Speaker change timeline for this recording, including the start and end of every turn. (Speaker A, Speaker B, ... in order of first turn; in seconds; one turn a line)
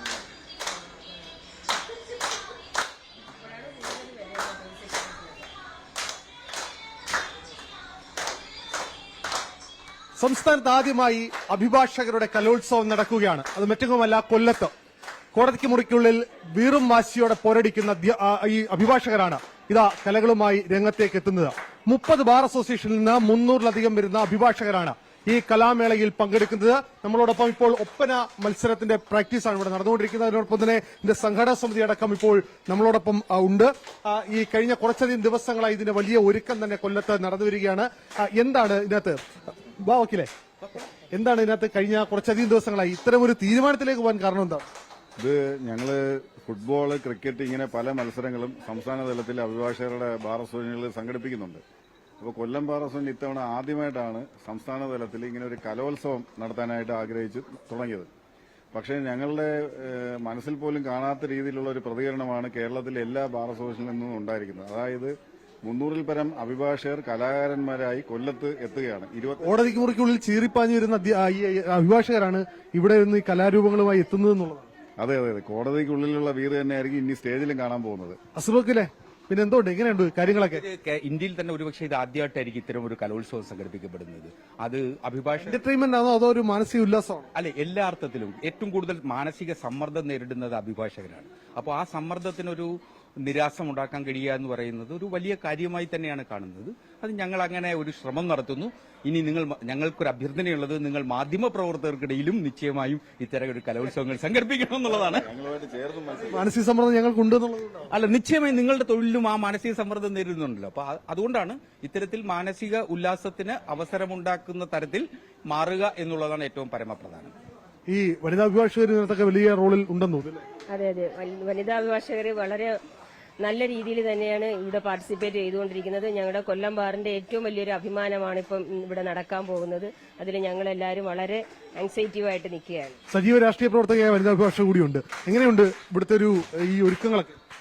Speaker A: 3.4-5.3
Speaker B: 10.2-14.7
Speaker B: 15.3-40.3
Speaker B: 41.0-44.6
Speaker C: 45.2-51.6
Speaker C: 52.2-58.1
Speaker C: 58.7-65.1
Speaker C: 65.7-69.7
Speaker B: 69.4-74.7
Speaker C: 75.0-78.2
Speaker B: 78.4-80.7
Speaker D: 80.5-85.6
Speaker B: 85.4-87.3
Speaker D: 87.3-105.3
Speaker C: 104.9-106.5
Speaker B: 106.3-107.9
Speaker D: 107.9-117.3
Speaker B: 117.9-120.4
Speaker A: 120.7-122.8
Speaker A: 123.4-133.0
Speaker B: 133.1-137.3